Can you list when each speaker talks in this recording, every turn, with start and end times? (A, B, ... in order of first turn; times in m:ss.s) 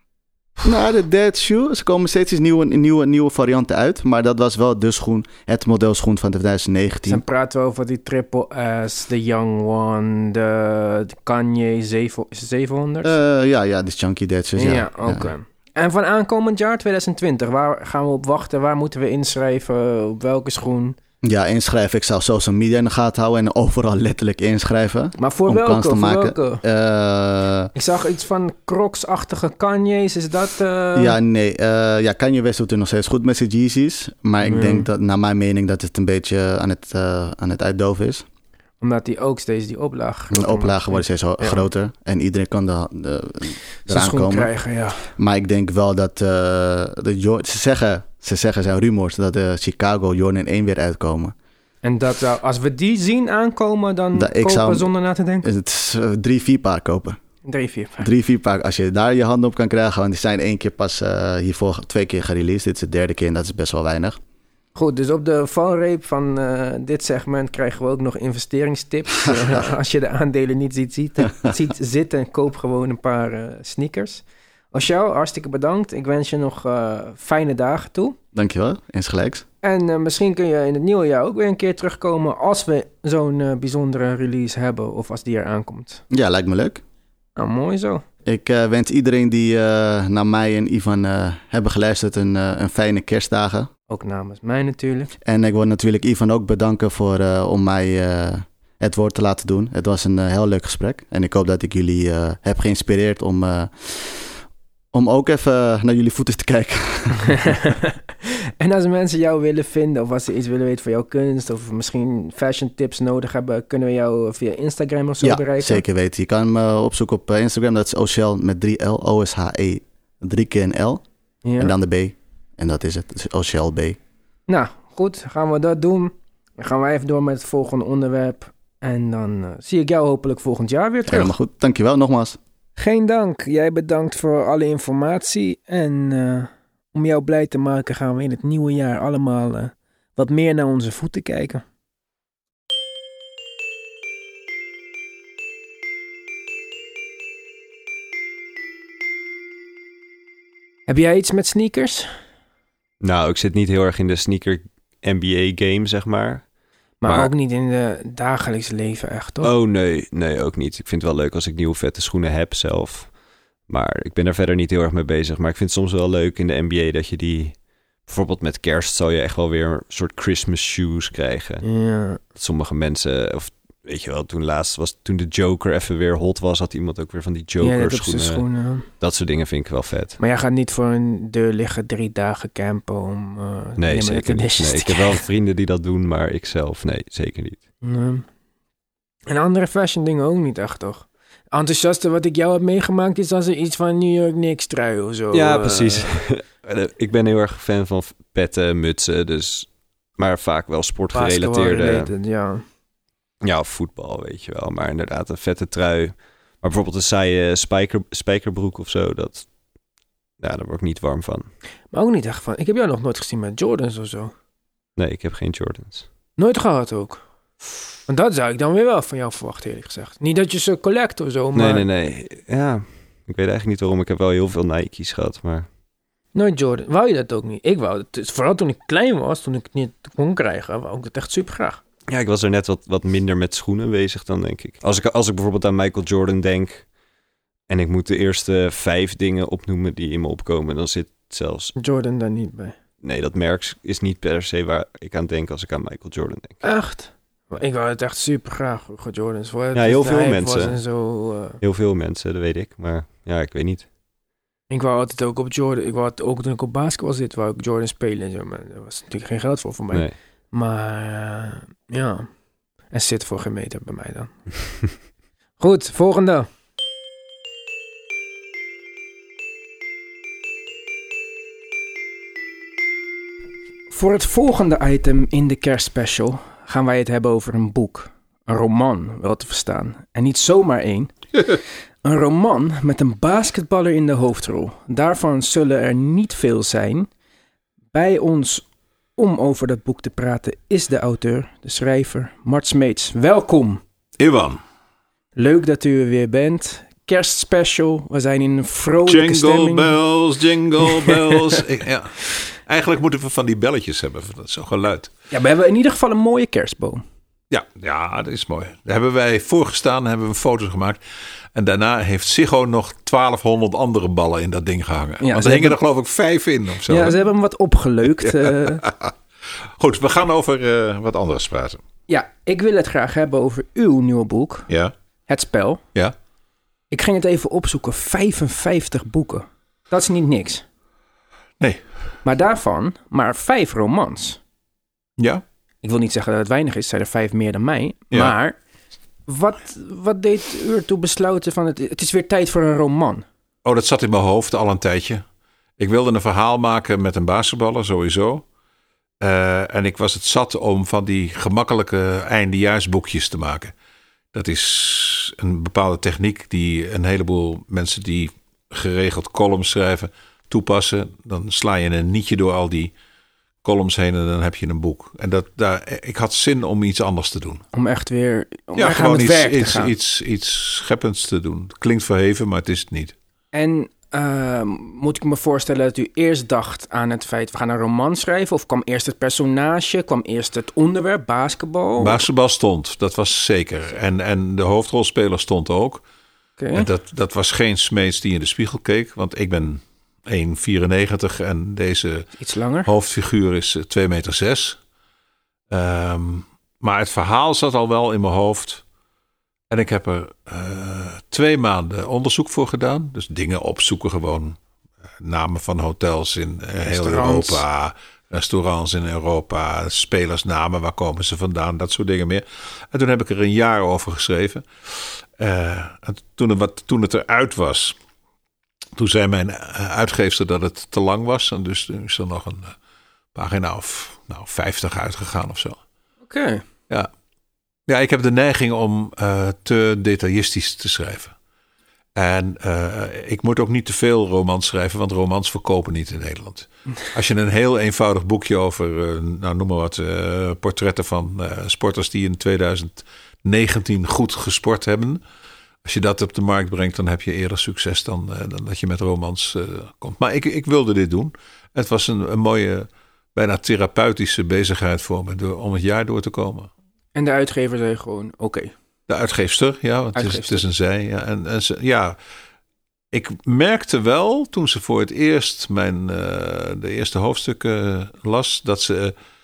0:00.6-0:07.2 A
0:07.1-0:13.1 B
0:13.0-0:15.3 A
0:14.6-0:21.0 B
0:21.2-0:27.7 A
0:25.2-0:26.6 B
0:27.8-0:31.2 B
0:31.0-0:38.3 A
0:34.4-0:34.9 B
0:38.8-0:41.6 B
0:40.3-0:44.5 A
0:43.9-0:45.1 B
0:45.2-0:51.3 A
0:51.8-0:55.5 B
0:54.1-0:54.9 A
0:55.4-0:57.2 A
0:57.4-0:58.1 B
0:58.0-1:04.2 A
1:04.8-1:18.2 B
1:18.3-1:19.4 A
1:19.6-1:26.0 B
1:26.1-1:26.8 A
1:27.4-1:28.0 B
1:28.2-1:33.7 A
1:33.9-1:35.1 B
1:35.2-1:44.3 A
1:44.9-1:47.4 A
1:47.3-1:55.8 B
1:55.2-2:01.0 A
2:01.4-2:01.7 B
2:01.6-2:04.0 A
2:04.5-2:11.3 B
2:11.1-2:12.4 A
2:12.8-2:21.6 B
2:30.9-2:32.1 B
2:33.0-2:36.5 C
2:37.0-2:39.5 B
2:37.0-2:37.3 C
2:39.4-2:43.1 C
2:43.7-2:51.7 C
2:51.6-2:52.2 B
2:52.3-2:58.4 C
2:57.6-2:58.9 B
2:59.0-3:00.2 C
3:00.2-3:05.2 B
3:03.8-3:07.6 C
3:07.8-3:08.3 B
3:09.3-3:16.2 B
3:15.3-3:22.1 C
3:21.1-3:22.6 B
3:23.4-3:29.5 C
3:30.4-3:31.5 C
3:31.9-3:34.3 B
3:35.0-3:36.1 C
3:36.4-3:37.2 B
3:38.1-3:41.9 B
3:41.5-3:45.7 C
3:46.3-3:51.8 B
3:52.1-3:56.9 C
3:57.7-4:01.7 C
4:01.8-4:02.8 B
4:03.0-4:06.6 C
4:06.6-4:11.6 B
4:09.8-4:10.8 C
4:11.6-4:13.9 C
4:14.7-4:22.3 B
4:22.9-4:24.4 B
4:25.6-4:26.5 B
4:33.9-4:41.2 B
4:42.0-4:47.1 B
4:47.9-4:53.8 B
4:54.2-4:54.6 D
4:55.4-5:00.0 B
4:59.0-5:05.1 D
5:00.8-5:01.6 B
5:05.3-5:07.0 B
5:07.5-5:11.0 D
5:11.5-5:17.2 D
5:15.2-5:15.8 B
5:16.9-5:18.8 B
5:18.2-5:19.1 D
5:19.8-5:21.8 D
5:22.1-5:24.7 B
5:24.7-5:24.9 D
5:25.3-5:25.8 B
5:26.9-5:30.6 B
5:32.2-5:34.4 B
5:35.2-5:35.4 D
5:35.8-5:38.6 B
5:39.3-5:43.2 B
5:43.6-5:45.2 D
5:45.8-5:48.4 D
5:49.2-5:53.7 D
5:54.3-6:02.9 D
6:03.6-6:07.6 D
6:07.7-6:09.9 B
6:08.8-6:13.2 D
6:13.5-6:22.2 B
6:22.0-6:26.0 D
6:26.6-6:26.9 B
6:26.7-6:32.3 D
6:32.4-6:32.9 B
6:32.8-6:34.8 D
6:35.7-6:38.8 D
6:39.7-6:44.6 D
6:45.2-6:58.0 D
6:46.9-6:47.6 B
6:59.0-7:02.7 D
7:03.3-7:05.8 D
7:06.3-7:06.6 B
7:07.9-7:11.4 D
7:12.2-7:25.2 D
7:25.8-7:36.7 D
7:37.2-7:38.7 B
7:39.1-7:42.2 D
7:40.2-7:40.6 B
7:43.1-7:49.1 D